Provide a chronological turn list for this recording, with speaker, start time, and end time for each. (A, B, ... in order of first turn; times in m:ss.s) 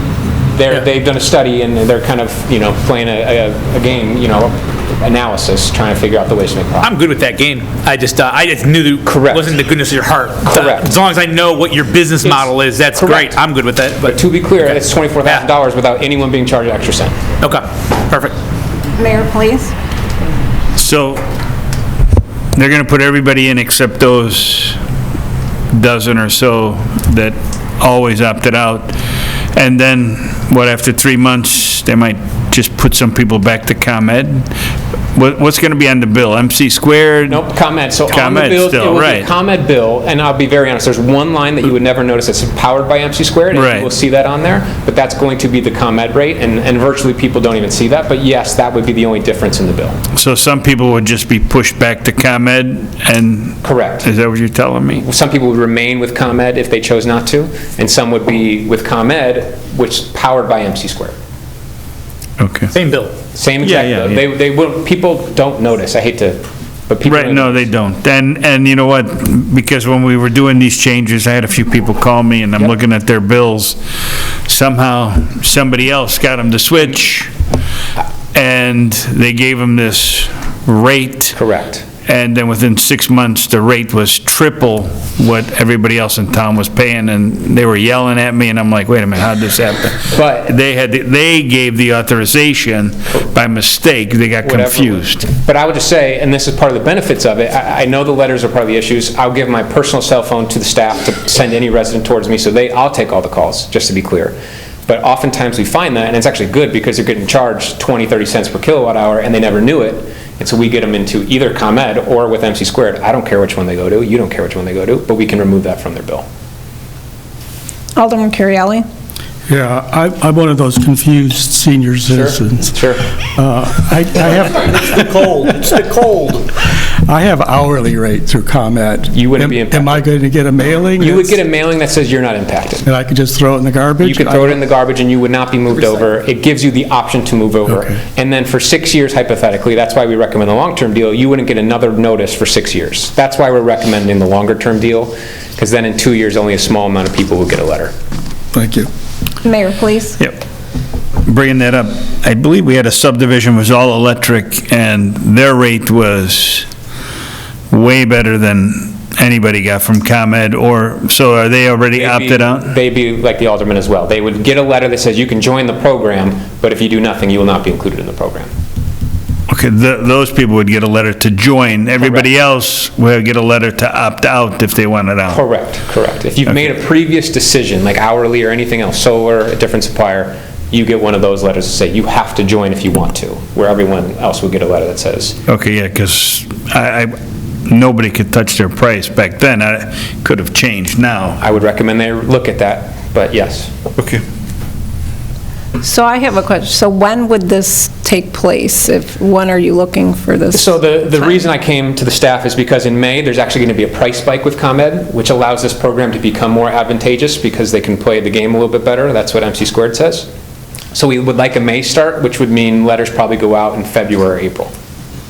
0:00.5-0:06.9 A
0:06.8-0:14.2 B
0:09.0-0:09.6 A
0:10.4-0:10.9 A
0:12.2-0:13.4 A
0:14.0-0:17.2 A
0:17.4-0:18.3 B
0:18.9-0:19.7 C
0:20.7-0:21.2 D
0:22.5-0:24.8 D
0:25.7-0:28.9 D
0:29.5-0:34.5 D
0:35.1-0:37.5 D
0:37.3-0:50.0 A
0:38.0-0:39.3 D
0:43.5-0:43.9 D
0:50.1-0:55.1 D
0:53.6-0:54.1 A
0:55.0-1:01.1 A
1:02.4-1:02.7 D
1:03.3-1:07.6 A
1:03.6-1:04.2 D
1:07.0-1:13.8 D
1:14.4-1:17.3 D
1:18.3-1:21.4 D
1:21.3-1:21.8 A
1:22.0-1:35.2 D
1:30.1-1:30.5 A
1:34.4-1:44.3 A
1:44.9-1:56.2 A
1:58.0-1:58.8 C
1:59.5-2:11.4 E
2:02.1-2:03.1 A
2:09.1-2:10.1 A
2:11.0-2:12.8 A
2:12.8-2:14.6 E
2:14.0-2:27.9 A
2:28.5-2:28.9 E
2:29.4-2:30.2 C
2:30.2-2:30.4 D
2:31.2-2:36.7 D
2:37.7-2:42.7 D
2:42.0-2:48.5 A
2:49.5-2:55.4 D
2:52.0-2:52.3 A
2:55.3-3:05.4 A
3:05.4-3:07.1 D
3:07.6-3:11.4 D
3:11.4-3:13.7 A
3:14.0-3:14.2 D
3:15.8-3:21.3 C
3:20.5-3:30.3 A
3:30.9-3:34.7 A